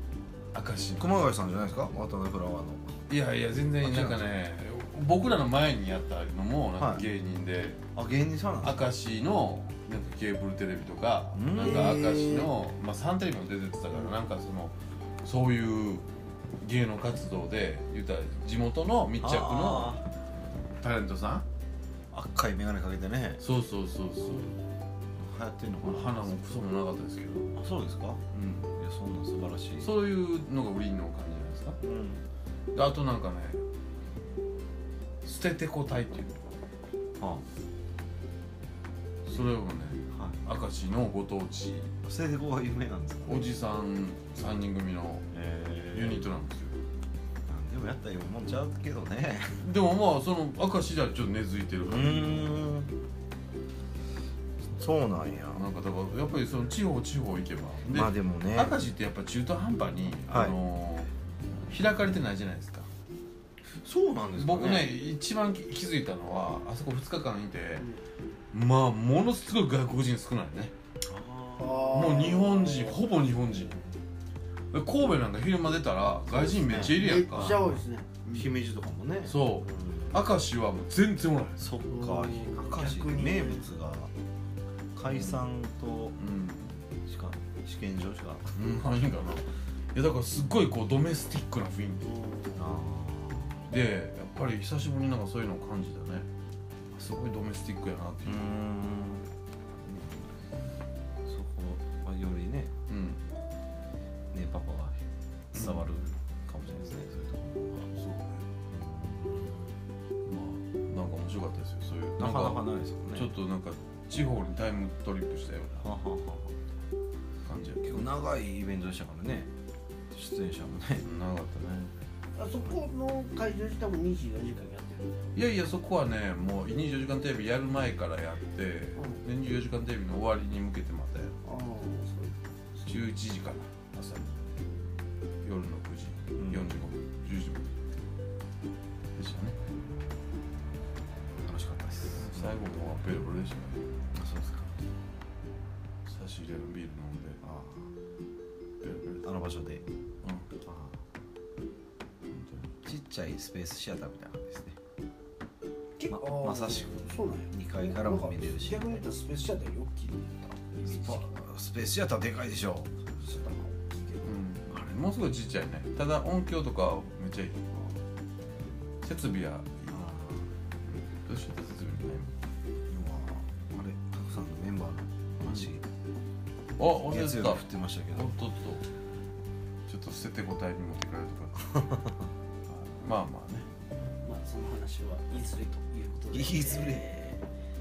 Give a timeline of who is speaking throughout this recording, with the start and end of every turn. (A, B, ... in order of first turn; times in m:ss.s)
0:00.5-0:01.1 A
0:01.0-0:02.9 B
0:03.1-0:07.8 A
0:03.8-0:04.2 B
0:06.8-0:07.0 B
0:07.9-0:08.8 B
0:08.6-0:16.0 A
0:11.3-0:12.5 B
0:16.6-0:20.0 A
0:19.2-0:20.0 B
0:20.8-0:21.4 A
0:22.1-0:23.4 B
0:23.4-0:24.5 A
0:24.2-0:24.6 B
0:25.2-0:26.3 B
0:25.8-0:27.6 A
0:27.5-0:28.2 B
0:28.3-0:28.7 A
0:28.7-0:29.9 B
0:29.8-0:31.8 A
0:31.8-0:32.2 B
0:32.7-0:33.6 A
0:35.2-0:36.4 A
0:39.2-0:41.9 A
0:40.1-0:40.4 B
0:42.0-0:43.5 B
0:43.3-0:45.3 A
0:45.3-0:46.3 B
0:45.9-0:46.8 A
0:47.5-0:49.6 B
0:49.6-0:52.6 A
0:51.8-0:52.9 B
0:54.7-0:55.7 B
0:55.5-1:01.1 A
0:57.8-0:58.8 B
1:00.3-1:00.6 B
1:01.6-1:02.9 A
1:03.6-1:04.9 B
1:04.4-1:07.9 A
1:08.5-1:10.7 A
1:11.0-1:11.9 B
1:11.6-1:13.0 C
1:11.9-1:13.7 A
1:14.7-1:17.6 A
1:16.3-1:17.7 B
1:16.7-1:18.5 C
1:18.3-1:20.2 B
1:19.3-1:21.6 A
1:21.6-1:24.1 B
1:21.9-1:23.7 C
1:24.9-1:26.2 B
1:26.2-1:26.8 A
1:27.0-1:28.5 B
1:28.6-1:32.1 A
1:32.0-1:32.7 C
1:32.6-1:33.7 B
1:33.7-1:36.3 A
1:36.9-1:38.4 A
1:38.2-1:39.3 B
1:39.8-1:40.3 B
1:41.2-1:42.7 B
1:42.9-1:43.2 A
1:44.3-1:47.9 B
1:45.5-1:45.9 A
1:47.8-1:48.4 A
1:48.7-1:49.7 B
1:50.2-1:55.8 A
1:52.2-1:53.3 B
1:55.8-1:56.5 B
1:57.4-1:58.0 A
1:57.8-1:59.5 B
2:00.1-2:01.0 B
2:01.0-2:01.9 A
2:02.4-2:05.3 C
2:05.3-2:11.4 A
2:09.0-2:09.2 C
2:11.4-2:12.4 C
2:12.8-2:14.3 A
2:15.4-2:17.7 A
2:16.4-2:16.9 B
2:19.2-2:19.6 A
2:21.4-2:22.6 B
2:22.1-2:23.8 A
2:24.1-2:24.8 B
2:26.0-2:27.4 A
2:27.4-2:27.9 B
2:28.8-2:29.3 A
2:29.2-2:29.8 B
2:30.2-2:30.5 A
2:30.6-2:31.0 B
2:32.3-2:32.7 A
2:32.8-2:34.8 B
2:36.0-2:41.2 C
2:36.1-2:39.0 B
2:40.8-2:43.4 B
2:43.4-2:44.3 C
2:44.2-2:48.0 A
2:49.0-2:50.1 A
2:49.9-2:50.5 B
2:50.8-2:52.3 A
2:52.9-2:55.8 B
2:56.8-2:58.8 A
2:56.9-2:58.3 B
2:59.9-3:02.0 A
3:01.8-3:02.3 B
3:02.7-3:03.7 A
3:04.2-3:07.4 C
3:06.3-3:07.1 B